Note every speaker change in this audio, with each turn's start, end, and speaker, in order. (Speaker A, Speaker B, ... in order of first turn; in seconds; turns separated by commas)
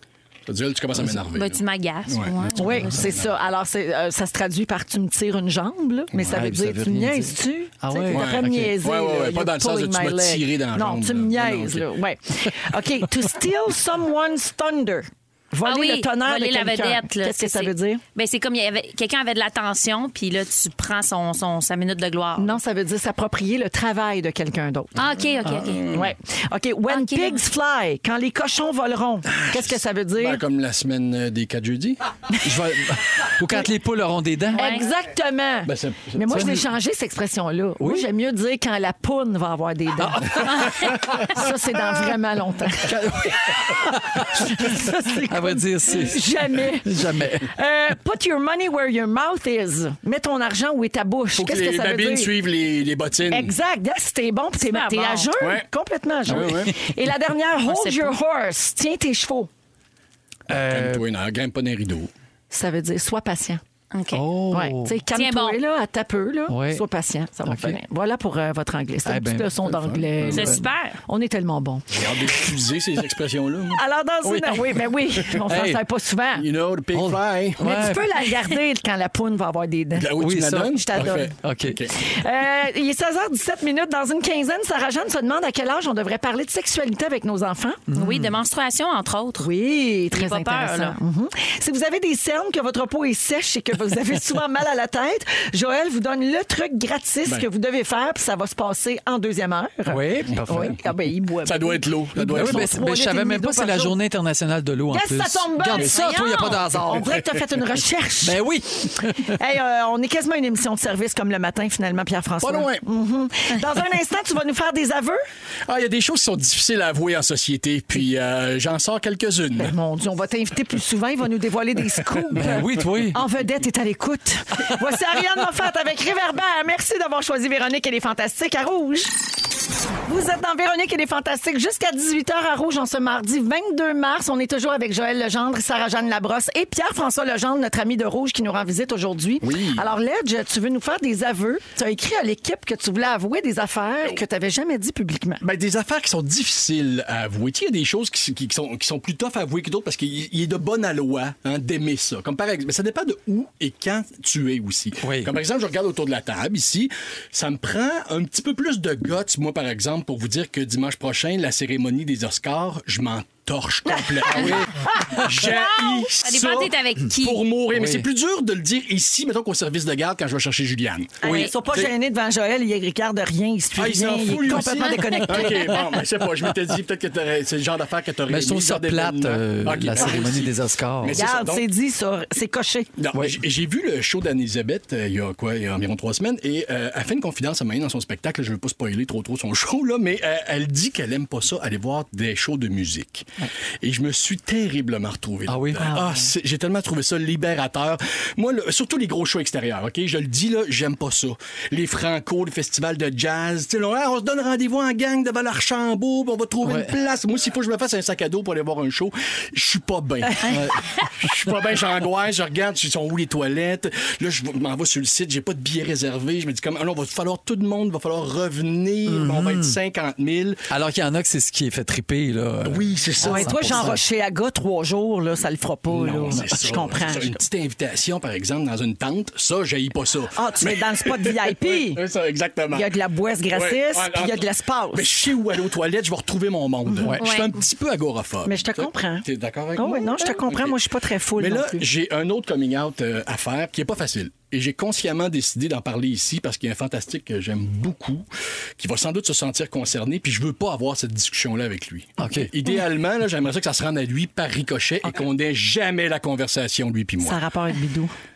Speaker A: 0.5-3.3, Speaker B: 1.3-3.1, Speaker C: 2.5-18.0, Speaker D: 6.3-8.7, Speaker A: 8.1-11.9, Speaker B: 15.6-22.6, Speaker C: 22.4-24.9, Speaker B: 24.9-25.9, Speaker A: 25.4-26.1, Speaker C: 25.9-30.4, Speaker B: 26.9-27.4, Speaker A: 29.3-32.0, Speaker D: 32.4-34.7, Speaker C: 34.5-43.0, Speaker B: 34.5-34.8, Speaker A: 35.6-36.4, Speaker D: 36.3-36.6, Speaker D: 37.8-38.0, Speaker D: 40.0-41.4, Speaker D: 42.9-46.2, Speaker C: 43.7-52.3, Speaker D: 46.8-47.5, Speaker A: 51.4-53.5, Speaker C: 53.3-59.5, Speaker B: 54.6-55.3, Speaker A: 55.4-55.6, Speaker A: 56.3-56.7, Speaker D: 56.3-56.7, Speaker B: 57.6-58.1, Speaker D: 60.5-61.0, Speaker A: 60.5-62.1, Speaker C: 62.5-63.6, Speaker B: 63.9-64.3, Speaker D: 64.1-65.0, Speaker C: 64.5-72.5, Speaker B: 65.1-65.6, Speaker D: 66.5-66.8, Speaker D: 67.5-67.8, Speaker D: 69.0-69.6, Speaker A: 69.7-70.6, Speaker B: 70.3-71.0, Speaker A: 71.9-73.8, Speaker C: 73.7-76.5, Speaker D: 74.2-74.8, Speaker D: 75.5-75.8, Speaker A: 76.4-77.7, Speaker D: 76.9-78.0, Speaker C: 77.6-81.3, Speaker A: 79.9-81.9, Speaker D: 80.2-81.8, Speaker C: 81.9-87.8, Speaker D: 87.9-88.3, Speaker B: 87.9-89.5, Speaker C: 89.4-104.0, Speaker B: 90.1-91.0, Speaker D: 99.9-100.8, Speaker A: 101.4-102.7, Speaker D: 102.2-107.1, Speaker C: 104.9-115.2, Speaker B: 105.8-106.6, Speaker D: 108.2-109.4, Speaker A: 112.4-112.8, Speaker A: 115.7-119.7, Speaker C: 119.6-129.1, Speaker D: 122.4-123.2, Speaker C: 130.1-145.4, Speaker A: 139.4-139.8, Speaker A: 145.4-171.9, Speaker D: 155.0-155.3, Speaker C: 163.9-165.2, Speaker D: 164.3-165.2, Speaker B: 165.5-167.4, Speaker D: 167.7-168.1, Speaker C: 171.2-175.8, Speaker B: 171.2-171.5, Speaker A: 173.8-181.7, Speaker D: 178.3-181.2, Speaker C: 181.1-182.9, Speaker A: 183.0-193.3, Speaker A: 193.8-220.7, Speaker D: 195.5-195.9, Speaker C: 195.8-196.3, Speaker D: 206.6-206.9, Speaker D: 210.4-210.8, Speaker D: 219.1-219.8, Speaker D: 220.7-224.0, Speaker A: 222.6-223.9, Speaker C: 223.2-227.4, Speaker A: 225.9-232.9, Speaker C: 230.3-232.0, Speaker C: 232.7-235.3, Speaker A: 233.5-240.8, Speaker B: 237.2-237.5, Speaker C: 238.4-241.8, Speaker A: 241.4-248.3, Speaker A: 248.8-257.4, Speaker D: 252.2-252.5, Speaker C: 257.2-258.1